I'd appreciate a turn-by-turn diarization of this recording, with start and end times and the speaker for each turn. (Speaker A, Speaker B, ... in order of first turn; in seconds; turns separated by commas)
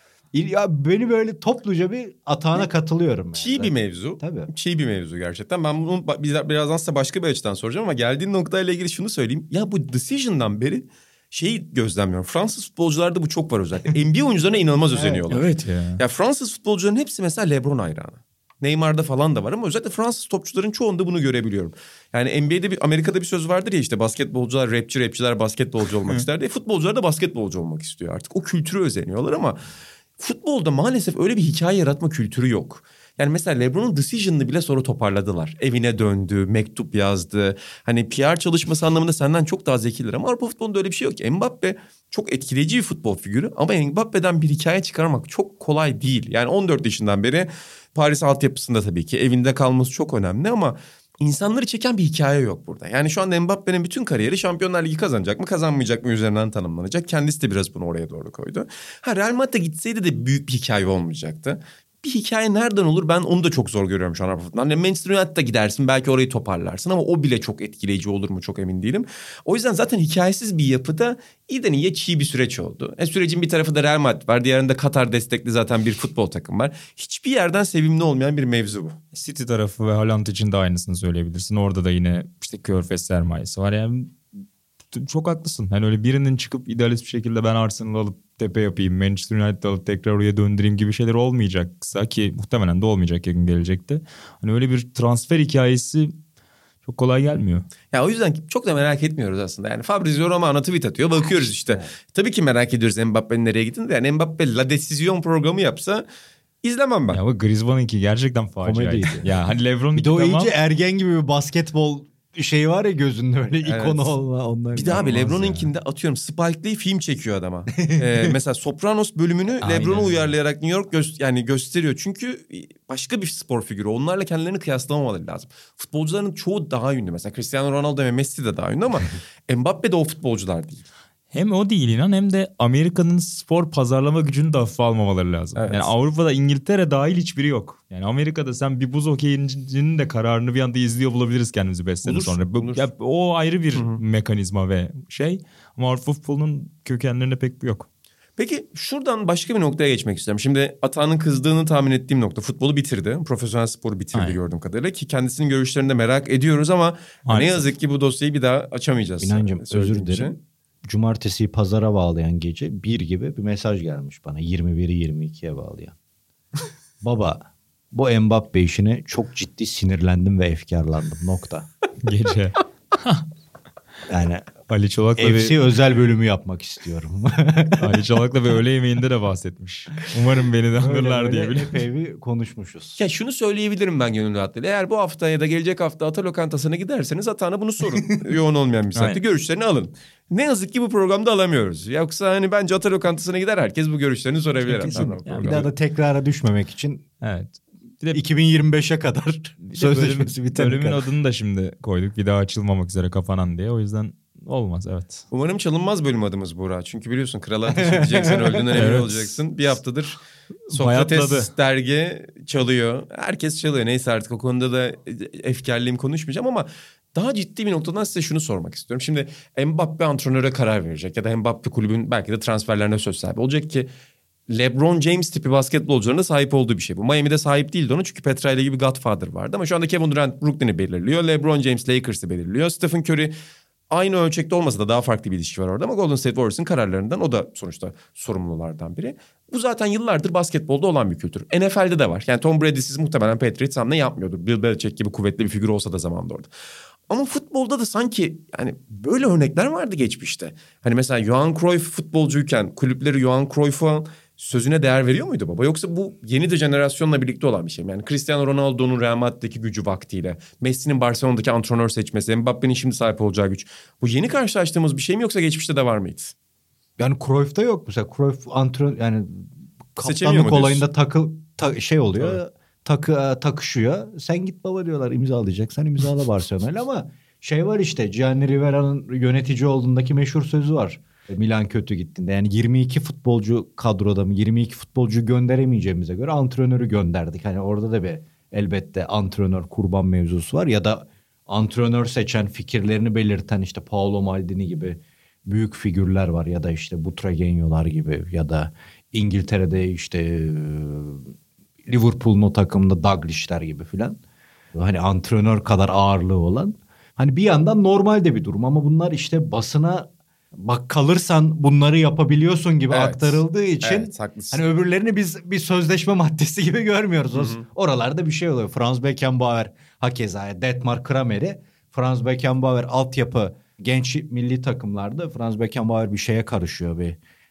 Speaker A: 0.3-4.5, Speaker B: 3.3-15.5, Speaker A: 15.0-15.2, Speaker C: 15.3-16.0, Speaker B: 16.0-29.6, Speaker B: 30.2-79.0, Speaker C: 79.1-84.2, Speaker C: 84.9-96.2, Speaker C: 96.8-97.7, Speaker B: 97.9-106.0, Speaker B: 106.6-107.2, Speaker C: 107.1-110.5, Speaker A: 108.6-109.3, Speaker A: 109.9-115.6, Speaker B: 113.6-114.1, Speaker B: 114.7-130.8, Speaker C: 114.9-115.5, Speaker A: 117.8-118.3, Speaker A: 119.6-120.3, Speaker C: 131.3-147.9, Speaker B: 135.6-135.9, Speaker B: 142.0-142.9, Speaker B: 143.7-144.0, Speaker B: 148.4-160.4, Speaker C: 157.2-157.7, Speaker A: 159.2-160.3, Speaker A: 160.8-165.9, Speaker A: 167.0-171.7, Speaker C: 172.0-173.2, Speaker A: 174.1-174.5, Speaker C: 174.7-175.6, Speaker A: 175.2-178.0, Speaker C: 177.8-181.8, Speaker A: 180.8-183.0, Speaker B: 183.0-195.7, Speaker C: 194.7-195.7, Speaker A: 194.8-197.0, Speaker C: 197.2-198.2, Speaker A: 198.1-201.1, Speaker C: 199.6-205.2, Speaker B: 205.3-210.2, Speaker A: 207.7-209.0, Speaker C: 208.7-209.2, Speaker C: 210.7-211.5, Speaker B: 210.7-223.9, Speaker B: 224.5-233.3, Speaker B: 233.9-246.5, Speaker B: 247.1-266.3, Speaker A: 267.0-301.3, Speaker B: 270.0-270.9, Speaker A: 301.9-304.2, Speaker A: 304.7-327.2, Speaker B: 312.9-314.6, Speaker B: 317.3-317.6